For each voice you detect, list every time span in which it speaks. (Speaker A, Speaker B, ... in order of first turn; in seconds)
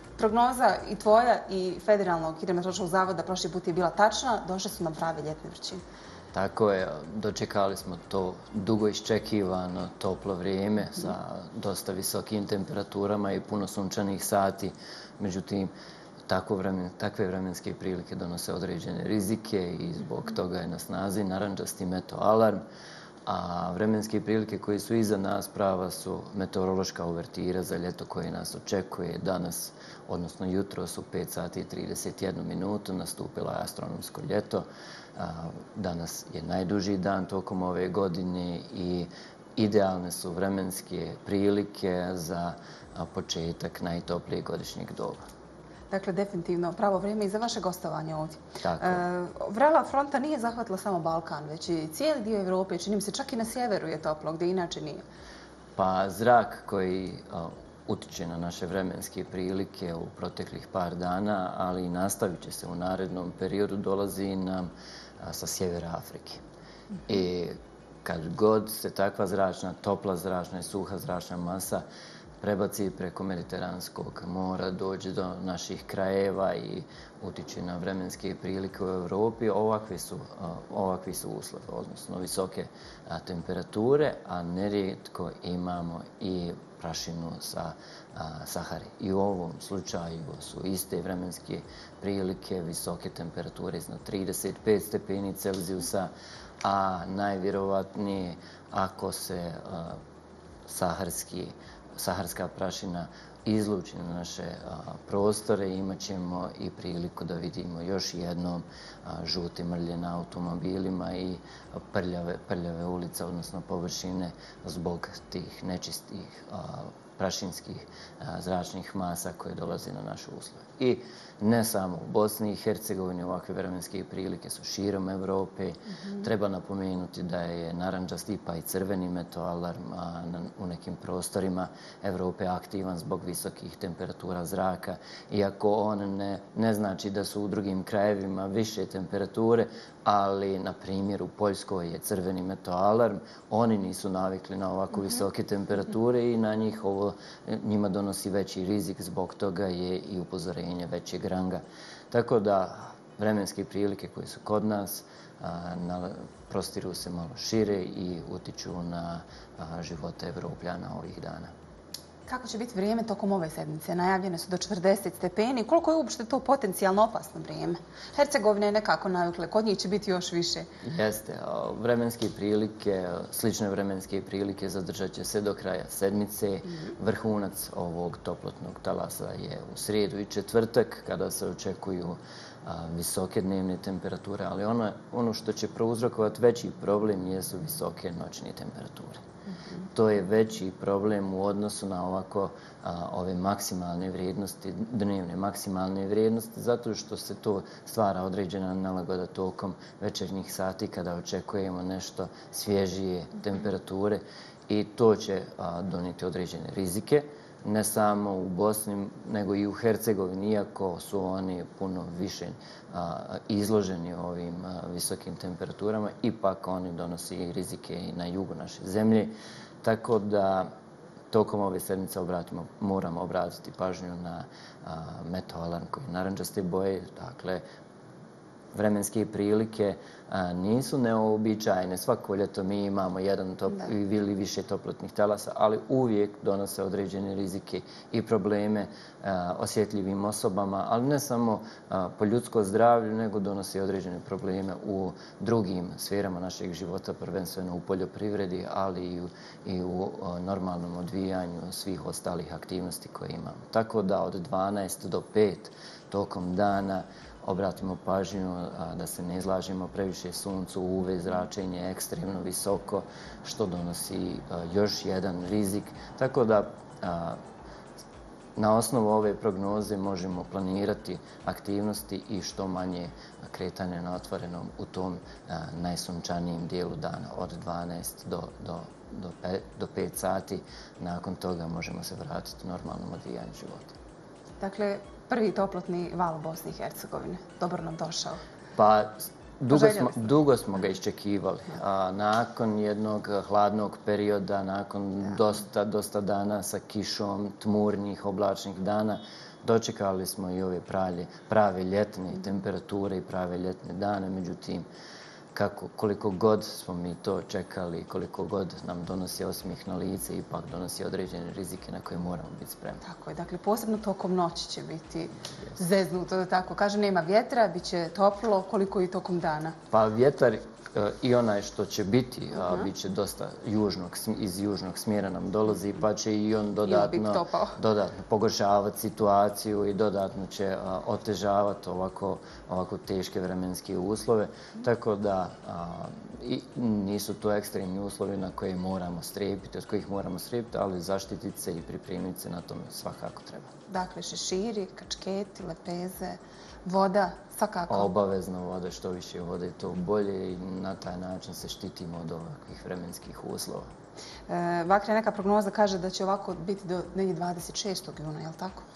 Speaker A: 0.2-5.8, 45.9-55.0, 162.3-170.7, 284.6-288.4, 289.7-290.2, 313.0-319.8, 326.8-327.7, 343.9-348.1, 354.5-358.8
Speaker B: 6.3-15.7, 16.3-22.6, 23.2-45.2, 48.6-49.0, 55.8-64.7, 65.2-66.4, 67.0-71.8, 72.4-96.1, 96.6-100.0, 100.7-161.5, 170.8-189.2, 189.9-220.7, 221.3-227.6, 228.7-267.4, 268.6-283.9, 288.8-304.8, 305.5-313.0, 319.9-343.7, 347.9-353.9